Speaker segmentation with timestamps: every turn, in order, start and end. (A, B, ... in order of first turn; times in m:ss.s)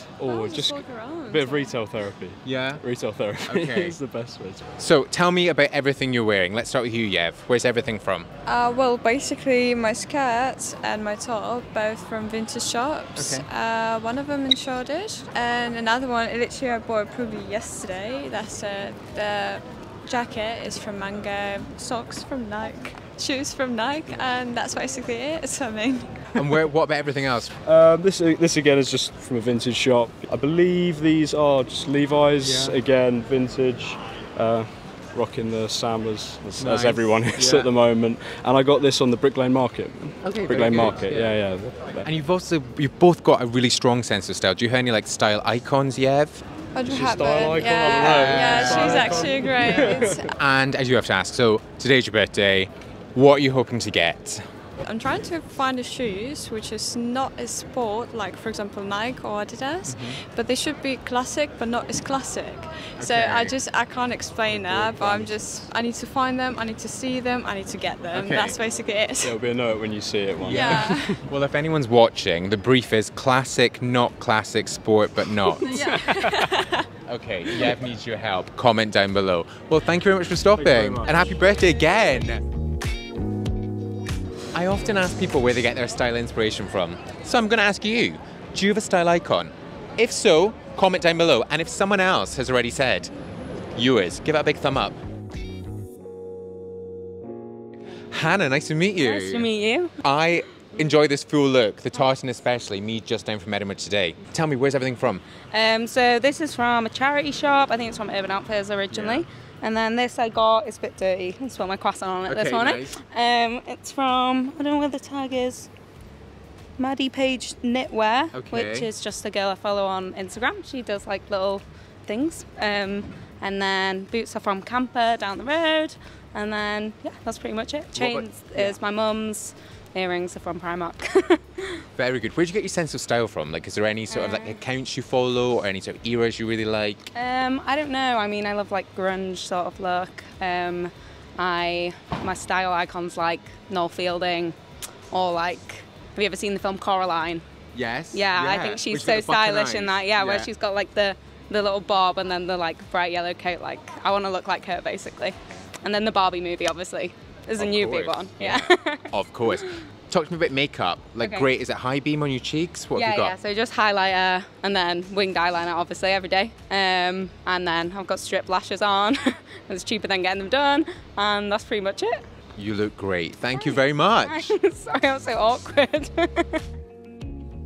0:00.2-0:04.7 A
0:00.2-0:01.8 B
0:02.4-0:02.8 C
0:03.4-0:04.0 C
0:04.8-0:08.3 C
0:08.4-0:26.1 B
0:13.2-0:13.5 C
0:26.4-0:27.5 C
0:27.6-0:42.1 A
0:32.4-0:32.8 C
0:36.6-0:37.7 C
0:40.2-0:46.4 C
0:46.7-0:50.3 B
0:46.9-0:50.2 A
0:47.6-0:54.4 C
0:54.8-1:09.4 B
0:59.8-1:00.2 C
1:03.0-1:03.6 C
1:04.5-1:05.4 A
1:08.1-1:08.6 C
1:09.2-1:11.2 A
1:10.4-1:16.0 C
1:10.5-1:11.2 B
1:15.6-1:16.8 B
1:15.9-1:16.3 A
1:17.1-1:22.4 C
1:20.5-1:21.3 A
1:24.5-1:33.1 C
1:33.7-1:35.0 C
1:38.1-1:39.5 C
1:39.0-1:39.9 D
1:40.0-1:45.2 C
1:45.5-1:55.7 D
1:48.9-1:49.2 C
1:52.3-1:53.0 C
1:56.8-2:11.8 D
1:58.3-1:58.9 C
2:07.9-2:08.8 C
2:12.0-2:17.1 C
2:14.1-2:14.6 D
2:17.1-2:24.6 D
2:25.1-2:27.4 D
2:27.7-2:30.5 C
2:28.1-2:39.8 D
2:37.6-2:43.4 C
2:41.2-2:41.5 D
2:42.9-2:52.2 D
2:52.6-2:54.5 C
2:54.3-2:56.6 D